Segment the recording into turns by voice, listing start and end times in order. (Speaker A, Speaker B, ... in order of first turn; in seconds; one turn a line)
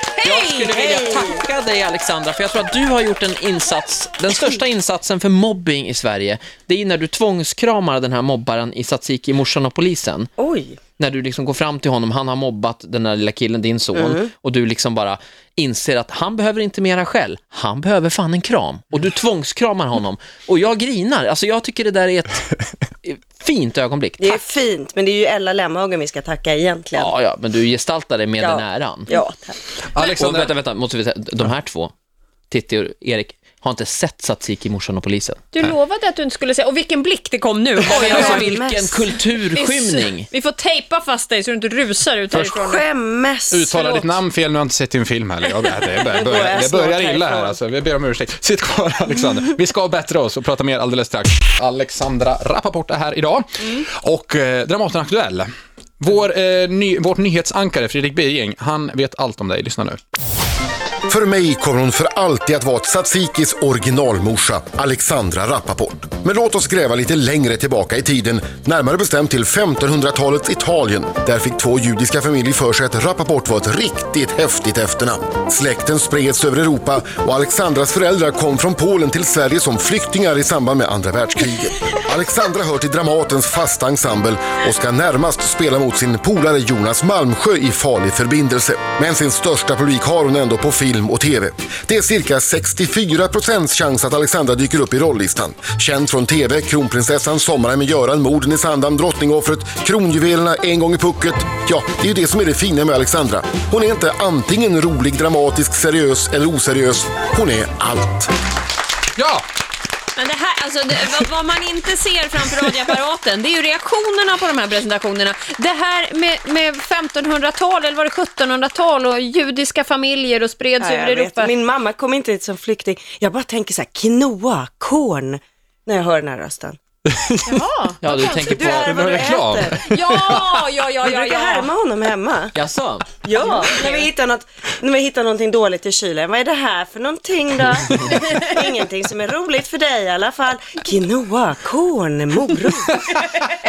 Speaker A: 0.2-10.3
Speaker B: 0.2-0.6
Speaker C: 0.8-1.4
Speaker C: 10.4-10.8
Speaker A: 11.0-22.5
Speaker C: 13.9-14.3
Speaker A: 23.0-24.4
Speaker C: 24.2-27.1
Speaker A: 26.9-29.1
Speaker C: 28.4-29.6
Speaker D: 29.9-30.5
Speaker B: 30.0-30.4
Speaker A: 30.1-31.9
Speaker A: 32.5-35.4
Speaker B: 35.5-42.9
Speaker C: 37.8-39.0
Speaker A: 37.9-40.3
Speaker C: 42.4-43.6
Speaker D: 43.5-60.0
Speaker B: 43.6-44.2
Speaker B: 45.6-46.0
Speaker C: 46.0-47.6
Speaker E: 61.1-108.3
Speaker D: 109.2-109.4
Speaker B: 110.2-121.5
Speaker C: 120.8-126.8
Speaker D: 127.1-127.6
Speaker B: 127.5-128.6
Speaker A: 128.0-129.4
Speaker C: 128.1-129.8
Speaker D: 128.7-130.4
Speaker B: 129.8-131.7
Speaker C: 131.0-132.6
Speaker A: 132.5-133.1
Speaker C: 133.2-143.1
Speaker B: 133.4-134.1
Speaker B: 138.1-138.4